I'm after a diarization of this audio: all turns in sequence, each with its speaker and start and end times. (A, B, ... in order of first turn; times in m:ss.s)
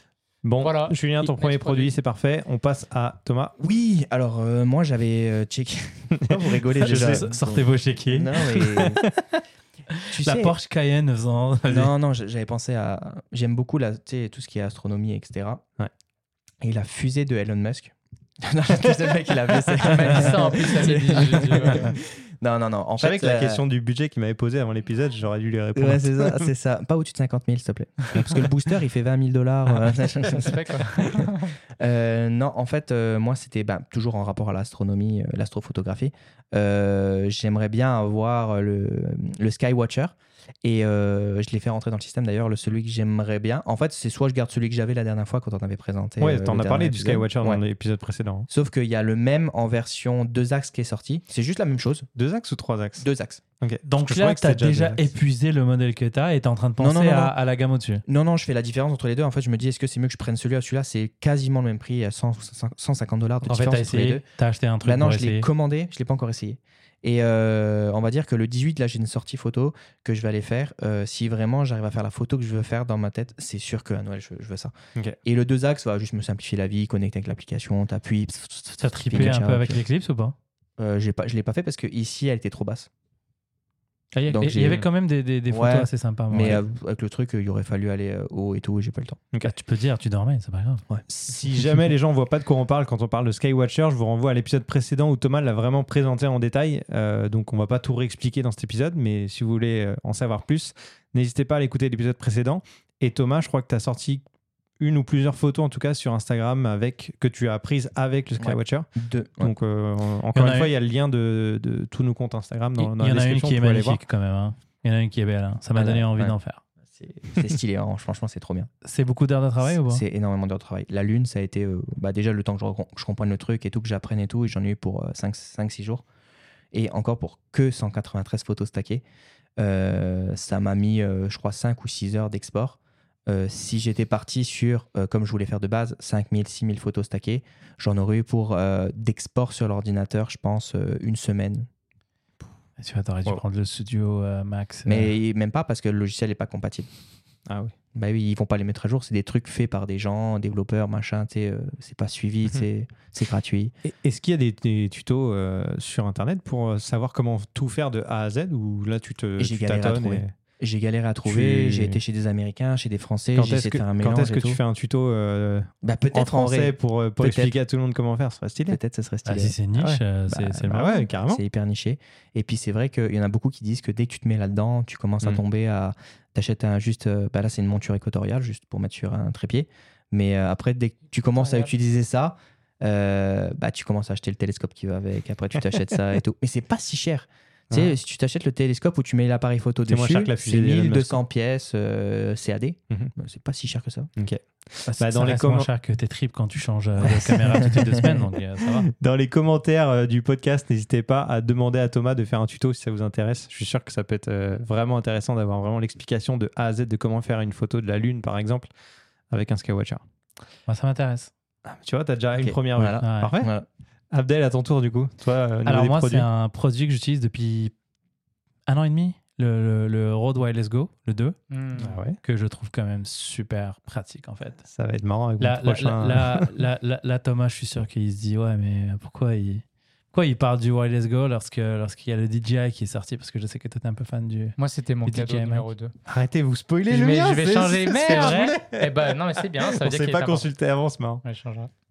0:00.4-0:03.6 A
0:00.6-0:01.9 B
0:03.6-0:09.0 C
0:06.2-0:06.4 A
0:06.8-0:09.1 D
0:09.9-0:11.9 D
0:10.1-0:10.6 C
0:11.7-0:15.6 C
0:16.6-0:23.6 C
0:19.8-0:21.9 B
0:23.0-0:26.5 A
0:25.8-0:47.6 C
0:28.2-0:28.5 A
0:30.3-0:31.5 B
0:46.2-0:48.5 A
0:48.5-0:52.1 C
0:52.2-0:53.1 A
0:53.0-0:53.4 C
0:53.6-0:55.1 A
0:53.8-0:58.0 D
0:56.8-0:57.4 C
0:58.1-1:04.2 C
1:03.4-1:05.5 D
1:04.8-1:14.7 C
1:15.2-1:19.8 C
1:18.8-1:20.4 D
1:20.8-1:22.9 C
1:24.1-1:26.6 D
1:24.3-1:24.9 C
1:25.5-1:29.2 C
1:29.4-1:30.8 D
1:31.1-1:44.2 A
1:44.8-1:48.9 A
1:48.4-1:49.5 C
1:49.4-1:54.0 A
1:50.3-1:50.7 D
1:52.8-1:56.6 D
1:55.8-1:56.3 C
1:56.9-1:58.7 C
1:58.8-2:00.0 D
1:59.6-2:06.0 C
2:06.7-2:09.0 C
2:09.6-2:21.7 C
2:22.8-2:25.1 D
2:24.9-2:26.9 C
2:27.5-2:27.7 A
2:27.9-2:33.7 C
2:33.8-2:40.3 A
2:39.4-2:44.6 C
2:41.2-2:42.0 A
2:43.4-2:48.8 A
2:45.8-2:47.5 C
2:48.7-2:49.6 C
2:49.2-2:51.0 D
2:49.8-2:50.0 A
2:50.3-3:14.1 C
2:50.6-2:51.4 A
3:01.4-3:01.7 B
3:09.9-3:11.2 A
3:14.2-3:15.7 A
3:15.0-3:18.9 D
3:17.0-3:18.2 C
3:19.0-3:28.7 A
3:29.3-3:30.0 A
3:30.7-3:31.3 D
3:31.7-3:33.5 A
3:32.4-3:33.7 C
3:33.0-3:33.4 D
3:34.1-3:36.3 A
3:35.7-3:37.7 D
3:38.7-3:41.4 D
3:41.5-3:42.0 B
3:41.8-3:42.2 A
3:42.2-3:44.6 D
3:44.6-3:46.5 A
3:45.4-3:55.7 D
3:54.6-3:55.9 B
3:56.1-4:01.2 A
3:56.9-4:00.5 B
3:58.0-3:58.6 D
4:01.2-4:01.7 B